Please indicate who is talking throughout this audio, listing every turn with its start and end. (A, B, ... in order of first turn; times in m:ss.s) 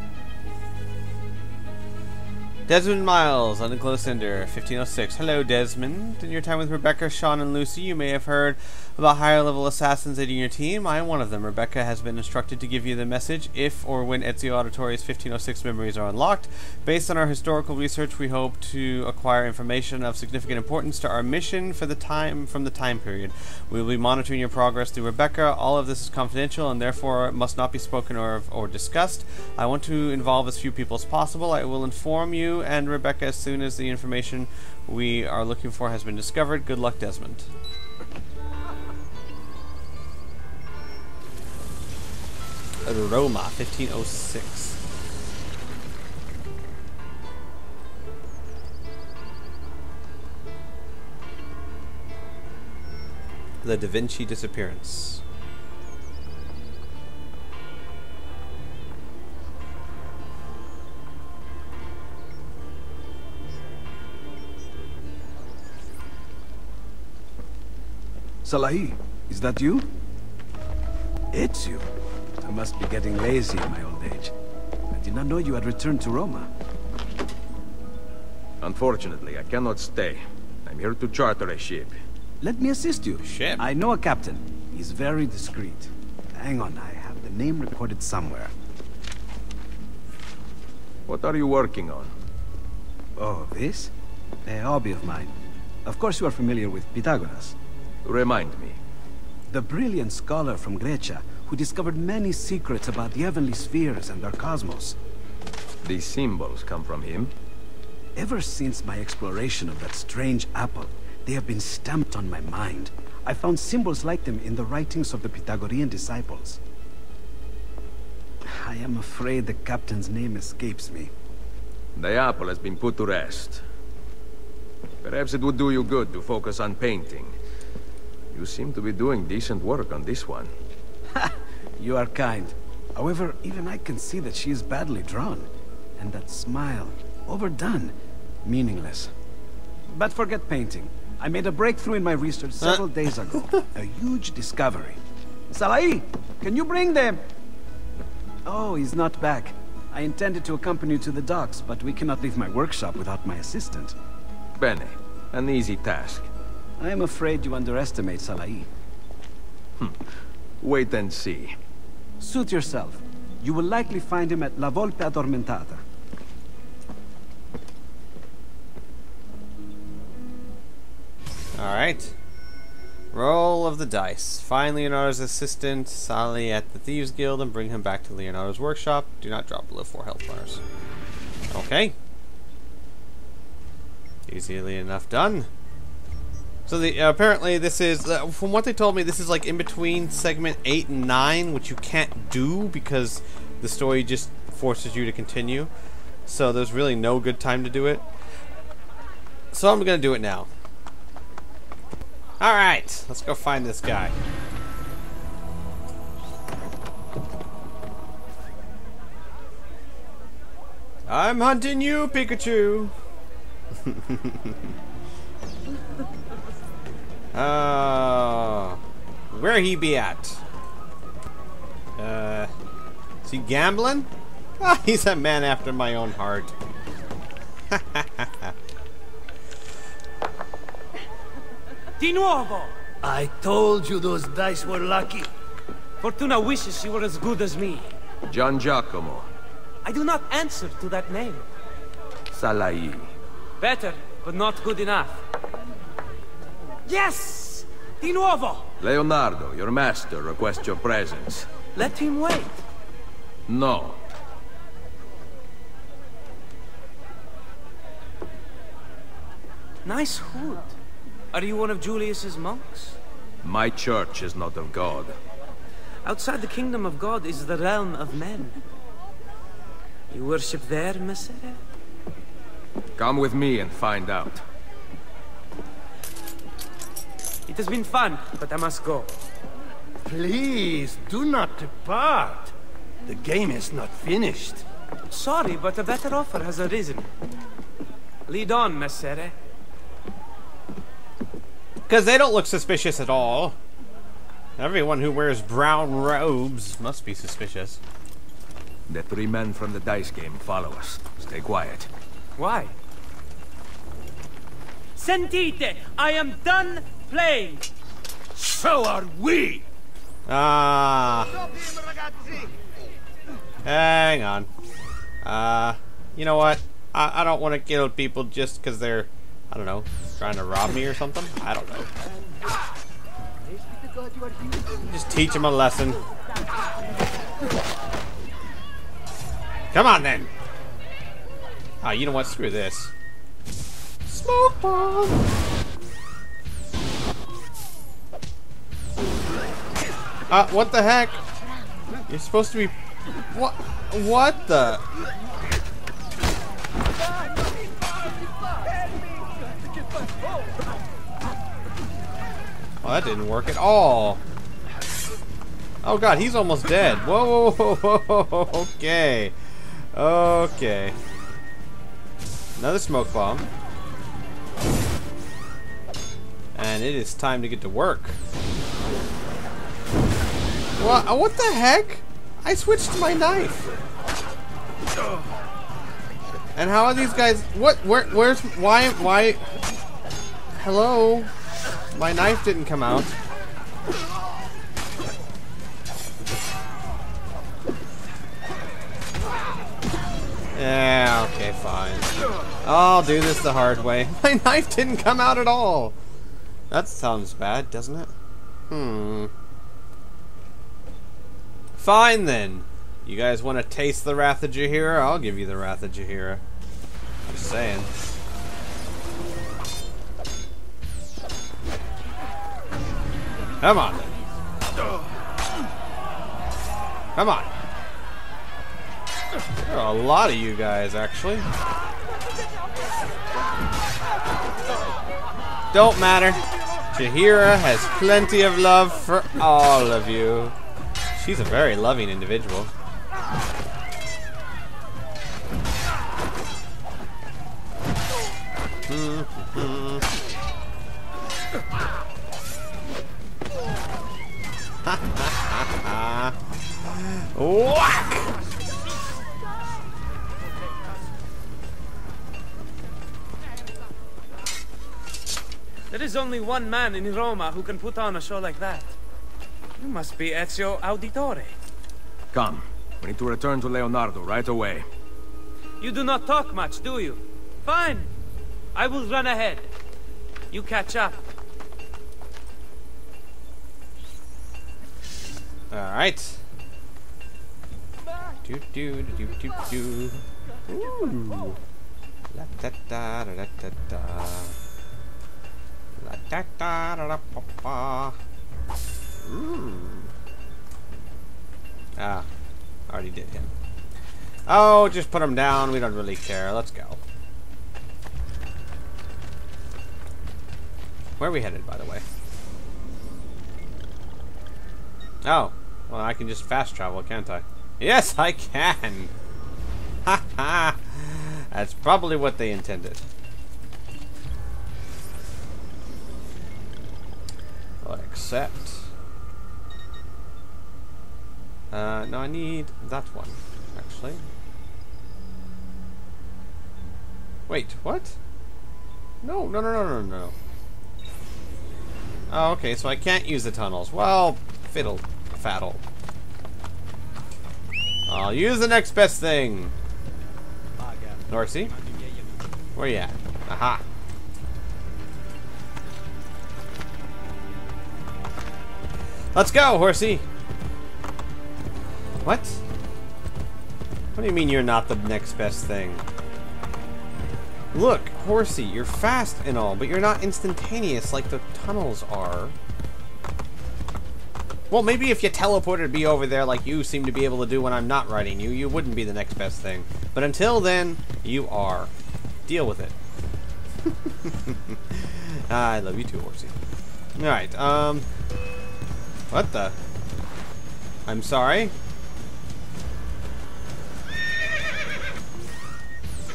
0:02.7-0:37.5 A
0:42.8-0:44.8 A
0:53.6-0:55.2 A
1:08.4-1:10.0 B
1:11.3-1:11.9 B
1:12.4-1:14.3 B
1:14.9-1:16.5 B
1:18.6-1:22.0 C
1:22.4-1:28.5 B
1:23.2-1:23.6 A
1:31.0-1:32.1 C
1:33.2-1:33.9 B
1:34.4-1:37.6 B
1:38.0-1:38.8 C
1:39.5-1:45.0 B
1:45.8-1:47.3 C
1:48.2-1:56.6 B
1:58.4-2:01.1 B
2:01.9-2:03.6 C
2:05.0-2:07.3 C
2:08.3-2:10.5 C
2:11.1-2:15.5 B
2:16.0-2:19.1 B
2:19.9-2:27.2 B
2:28.4-2:34.0 B
2:34.6-2:36.3 C
2:36.8-2:38.7 B
2:40.6-2:41.5 C
2:42.2-2:45.8 B
2:51.6-2:52.1 A
2:53.1-3:00.6 A
3:01.5-3:02.0 A
3:04.3-3:05.5 A
3:06.6-3:15.7 A
3:16.2-3:18.0 A
3:19.5-3:20.5 A
3:22.4-3:24.1 A
3:31.1-3:32.9 A
3:33.8-3:34.6 A
3:37.3-3:38.8 A
3:39.3-3:40.4 A
3:42.0-3:42.5 A
3:43.2-3:44.1 A
3:44.6-3:46.5 A
3:47.7-3:48.5 A
3:52.0-3:52.8 D
3:53.7-3:55.2 E
3:56.0-3:57.9 D
3:58.3-3:59.3 C
3:59.8-4:01.4 D
4:02.3-4:03.1 C
4:03.6-4:05.2 D
4:06.8-4:08.7 D
4:08.8-4:11.6 C
4:11.6-4:12.6 D
4:13.5-4:14.0 C
4:19.8-4:20.8 D
4:21.3-4:23.0 D
4:23.4-4:25.1 C
4:26.0-4:28.6 D
4:30.1-4:31.6 D
4:33.0-4:34.4 C
4:37.5-4:39.2 D
4:40.0-4:42.5 E
4:43.2-4:43.5 C
4:43.7-4:44.6 E
4:45.1-4:47.1 D
4:48.3-4:49.3 D
4:51.9-4:53.6 A
4:54.6-4:57.8 A
4:58.9-5:01.9 C
5:02.4-5:02.7 D
5:05.0-5:07.7 D
5:08.4-5:09.6 C
5:10.3-5:11.4 A
5:13.6-5:14.5 A
5:15.2-5:21.9 A
5:24.7-5:26.0 A
5:29.7-5:30.3 A
5:31.8-5:32.9 A
5:34.0-5:35.2 A
5:40.3-5:41.2 A
5:42.1-5:44.8 A
5:52.8-5:54.2 A
5:55.8-6:01.0 A
6:02.6-6:03.5 A
6:06.5-6:08.2 A
6:10.8-6:13.7 A
6:16.6-6:19.4 A
6:20.5-6:21.3 A
6:21.9-6:23.1 A
6:30.5-6:32.1 A
6:32.6-6:36.0 A
6:36.7-6:38.1 A
6:38.7-6:39.3 A
6:41.7-6:46.4 A
6:47.3-6:47.9 A
6:53.6-6:54.2 A
6:57.2-6:57.5 A
6:59.6-7:01.5 A
7:05.7-7:10.5 A
7:11.1-7:12.7 A
7:18.9-7:20.0 A
7:24.8-7:28.4 A
7:35.9-7:38.9 D
7:39.8-7:41.5 D
7:42.3-7:44.8 C
7:45.8-7:48.1 D
7:48.7-7:49.7 D
7:50.5-7:51.2 D
7:55.7-7:56.4 A
7:58.4-8:01.6 A
8:02.3-8:04.5 A
8:06.0-8:08.2 A
8:09.2-8:10.1 A
8:12.0-8:12.3 A
8:12.9-8:13.5 A
8:14.5-8:17.0 A
8:21.2-8:22.0 A
8:25.2-8:29.1 A
8:30.0-8:33.0 A
8:37.8-8:38.9 A
8:41.7-8:44.2 A
8:47.5-8:48.2 A
8:49.2-8:50.3 A
8:52.3-8:55.8 A
8:58.1-8:59.7 A
9:01.3-9:01.7 A
9:02.8-9:03.8 A
9:09.3-9:10.2 A
9:12.2-9:12.6 A
9:14.1-9:16.0 A
9:17.7-9:22.5 A
9:24.7-9:31.9 A
9:32.4-9:32.9 A
9:33.9-9:36.5 A
9:37.2-9:38.1 A
9:39.3-9:39.7 A
9:41.1-9:41.7 A